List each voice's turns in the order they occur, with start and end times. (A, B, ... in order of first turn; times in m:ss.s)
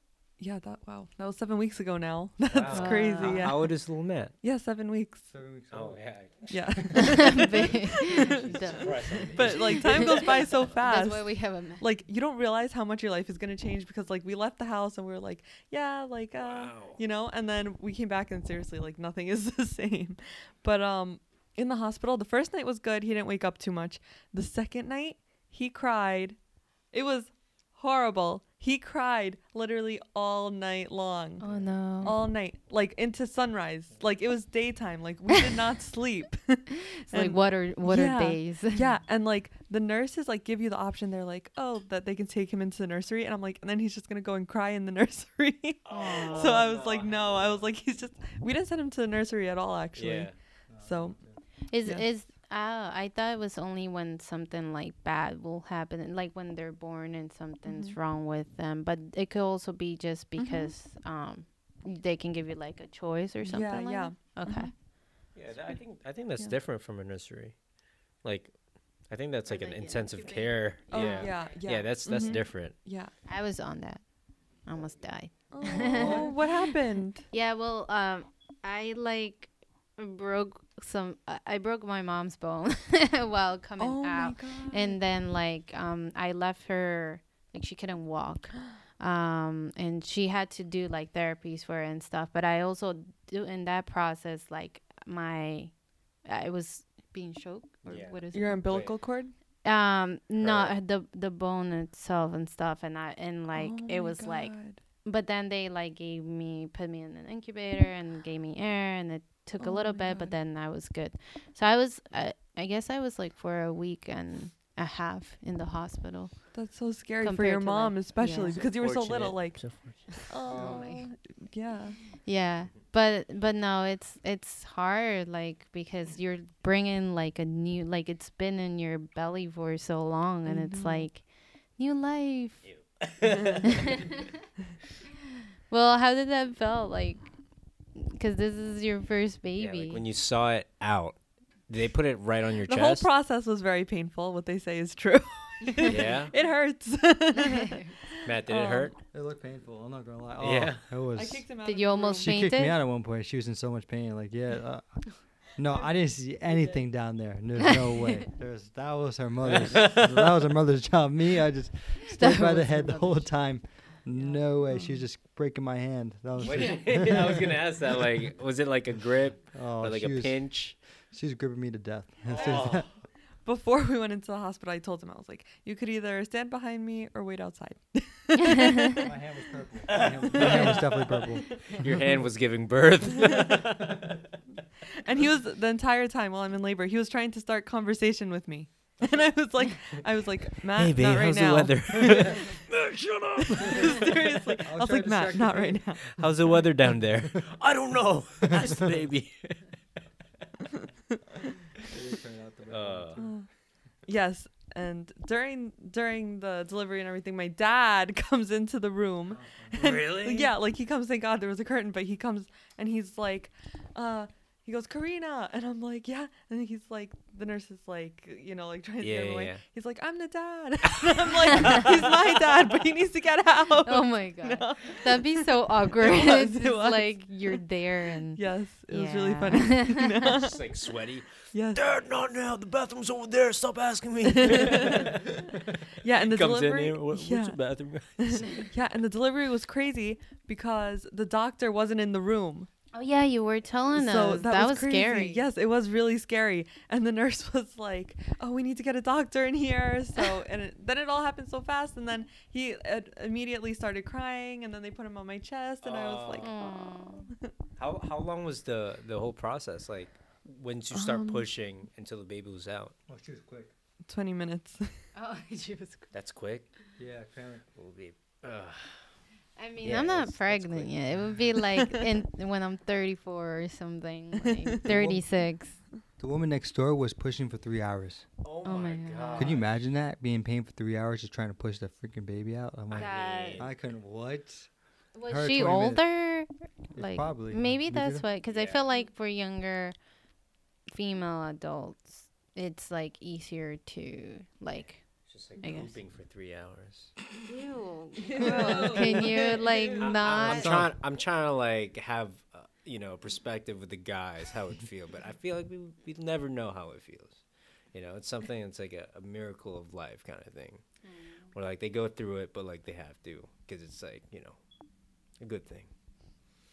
0:00.4-0:05.3 A
0:02.5-0:04.3 B
0:02.7-0:03.5 C
0:05.3-0:06.5 D
0:05.7-0:07.3 B
0:06.5-0:31.4 A
0:07.3-0:11.8 C
0:08.3-0:08.8 D
0:08.4-0:10.4 B
0:16.4-0:17.0 B
0:31.4-0:32.2 C
0:32.0-0:52.1 A
0:37.1-0:38.8 C
0:45.9-0:47.7 B
0:45.9-0:46.5 C
0:49.9-0:50.4 B
0:50.7-0:51.4 D
0:51.7-1:04.7 C
0:57.6-0:58.0 A
1:00.4-1:00.7 A
1:03.4-1:04.7 A
1:05.3-1:12.7 B
1:09.5-1:11.4 C
1:10.9-1:13.1 A
1:13.2-1:38.7 C
1:15.5-1:17.3 A
1:15.6-1:16.3 D
1:23.8-1:25.0 A
1:37.8-1:38.9 B
1:38.3-1:39.3 A
1:39.6-1:58.6 C
1:40.4-1:40.7 B
1:43.5-1:44.8 A
1:49.6-1:50.3 A
1:56.5-2:02.1 A
1:58.5-2:00.4 B
2:00.4-2:00.9 D
2:00.5-2:01.3 C
2:02.2-2:12.7 C
2:10.4-2:11.1 A
2:12.6-2:14.0 B
2:15.7-2:20.0 C
2:19.6-2:23.1 B
2:22.6-2:29.0 A
2:25.9-2:26.3 B
2:27.3-2:28.0 C
2:28.2-2:28.9 B
2:29.1-2:47.8 D
2:30.4-2:30.8 B
2:31.1-2:32.4 A
2:31.6-2:32.8 C
2:35.6-2:36.8 A
2:39.4-2:40.3 B
2:42.0-2:43.3 C
2:44.7-2:45.0 A
2:46.4-2:50.8 B
2:49.5-2:52.9 D
2:52.3-2:53.0 B
2:52.4-2:52.8 A
2:53.4-2:59.1 A
2:59.0-3:02.1 D
2:59.9-3:01.4 A
2:59.9-3:00.9 B
3:01.6-3:04.2 B
3:05.0-3:12.5 A
3:10.8-3:14.1 B
3:13.6-3:16.2 A
3:14.6-3:16.0 D
3:16.2-3:19.8 B
3:21.8-3:23.5 D
3:22.7-3:23.2 B
3:23.2-3:23.5 A
3:24.0-3:47.6 A
3:29.3-3:29.8 D
3:29.7-3:30.5 B
3:39.0-3:39.6 B
3:41.1-3:42.1 B
3:43.8-3:49.9 C
3:48.3-3:50.8 A
3:50.2-3:55.3 B
3:51.5-3:51.8 A
3:54.4-3:55.1 A
3:56.0-4:02.7 A
3:56.2-3:58.7 B
4:02.9-4:05.4 C
4:03.9-4:16.8 A
4:15.8-4:16.7 B
4:16.4-4:17.3 C
4:17.8-4:22.9 B
4:20.9-4:21.5 A
4:23.1-4:23.7 D
4:24.0-4:25.1 A
4:25.1-4:26.1 C
4:26.1-4:26.7 B
4:27.0-4:27.6 D
4:27.7-4:29.2 B
4:29.6-4:35.8 C
4:29.8-4:31.4 B
4:34.8-4:35.3 D
4:36.2-4:38.3 D
4:38.4-4:39.8 B
4:38.6-4:39.6 C
4:39.4-4:44.7 D
4:42.9-4:43.7 B
4:42.9-4:43.6 C
4:45.1-4:49.9 C
4:45.3-4:46.1 D
4:46.9-4:48.2 D
4:48.5-4:48.8 B
4:50.9-4:56.0 C
4:55.2-4:57.2 B
4:57.4-5:00.8 C
4:58.4-5:00.1 A
4:58.6-4:59.0 B
5:00.0-5:10.8 B
5:00.3-5:00.9 D
5:11.0-5:11.5 C
5:11.5-5:14.6 B
5:15.3-5:15.9 B